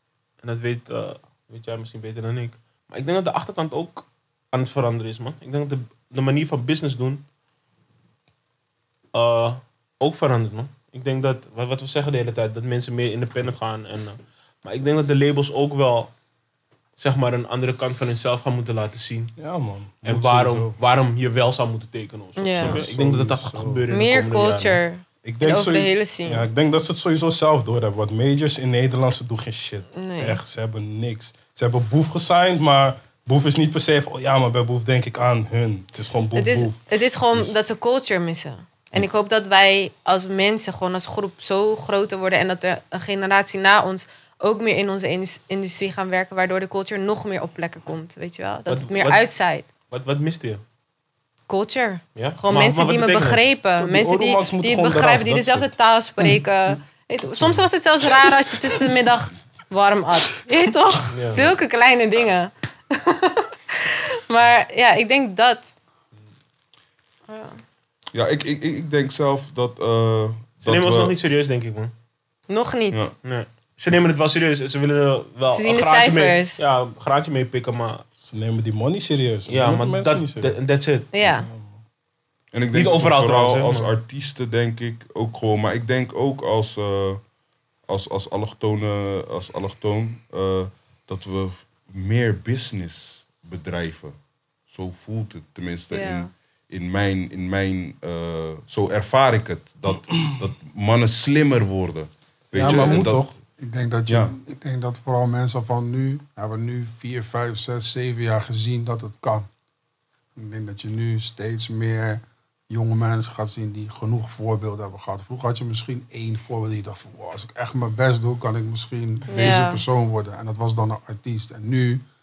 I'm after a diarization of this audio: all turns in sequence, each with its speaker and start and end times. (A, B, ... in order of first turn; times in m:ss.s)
0:00.4-0:07.2 A
0:09.1-0:16.1 A
0:17.0-0:19.4 A
0:19.4-0:20.8 B
0:20.0-0:24.8 A
0:22.4-0:22.8 C
0:22.6-0:22.9 D
0:22.7-0:23.9 B
0:23.9-0:26.5 C
0:25.2-0:36.8 B
0:30.0-0:30.4 C
0:36.3-0:49.7 C
0:48.7-0:49.2 A
0:49.9-0:50.6 A
0:51.5-1:05.7 C
0:52.2-0:53.4 A
0:53.8-0:55.7 B
0:58.5-0:58.9 B
1:01.1-1:01.5 A
1:07.3-1:07.6 C
1:08.1-1:11.1 D
1:10.6-1:11.9 A
1:12.5-1:13.1 C
1:13.2-1:18.0 A
1:15.5-1:16.6 C
1:18.2-1:20.6 B
1:19.5-1:21.1 A
1:21.1-1:21.5 C
1:21.4-1:21.8 B
1:22.5-1:27.2 D
1:22.7-1:23.9 A
1:27.9-1:34.2 D
1:34.7-1:43.3 D
1:35.9-1:36.3 C
1:42.5-1:43.4 B
1:43.6-1:49.5 E
1:44.1-1:44.3 D
1:50.4-2:02.0 E
1:59.3-1:59.8 C